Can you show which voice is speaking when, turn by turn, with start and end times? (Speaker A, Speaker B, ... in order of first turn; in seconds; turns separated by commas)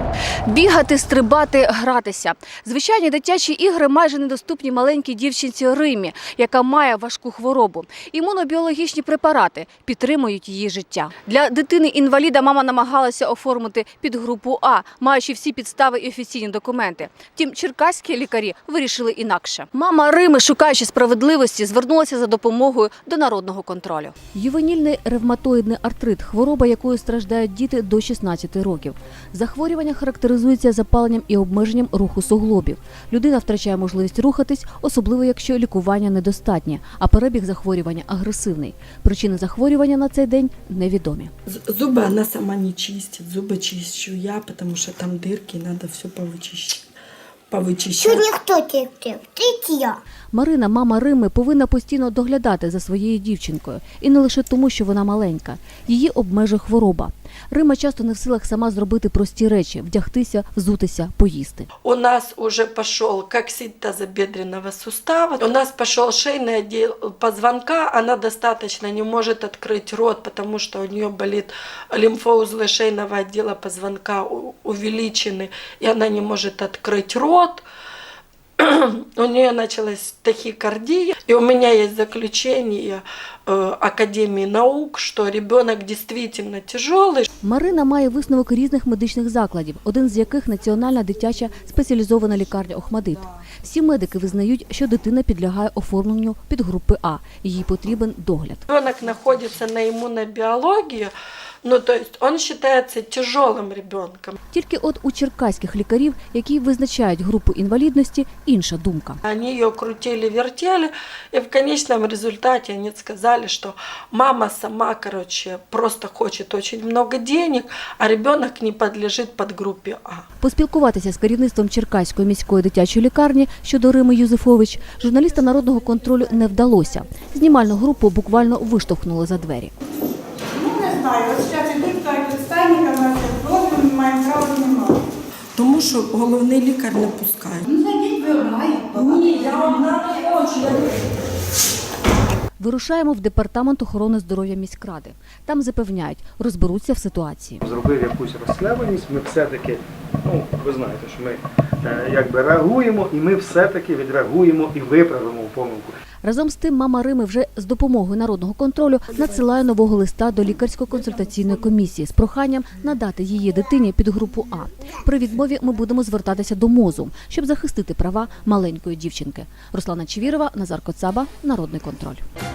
Speaker A: 0.5-41.3, Speaker B: 41.5-46.8, Speaker B: 47.5-48.3, Speaker C: 48.0-50.0, Speaker A: 50.3-61.7, Speaker B: 61.8-77.6, Speaker B: 78.6-87.3, Speaker A: 87.4-98.6, Speaker B: 98.7-101.1, Speaker B: 101.6-104.4, Speaker A: 104.5-109.2, Speaker B: 109.3-120.2, Speaker A: 120.4-129.7, Speaker D: 130.6-135.0, Speaker B: 135.6-137.7, Speaker D: 137.8-138.9, Speaker B: 138.9-140.9, Speaker A: 142.6-147.6, Speaker E: 147.6-156.0, Speaker A: 156.2-172.2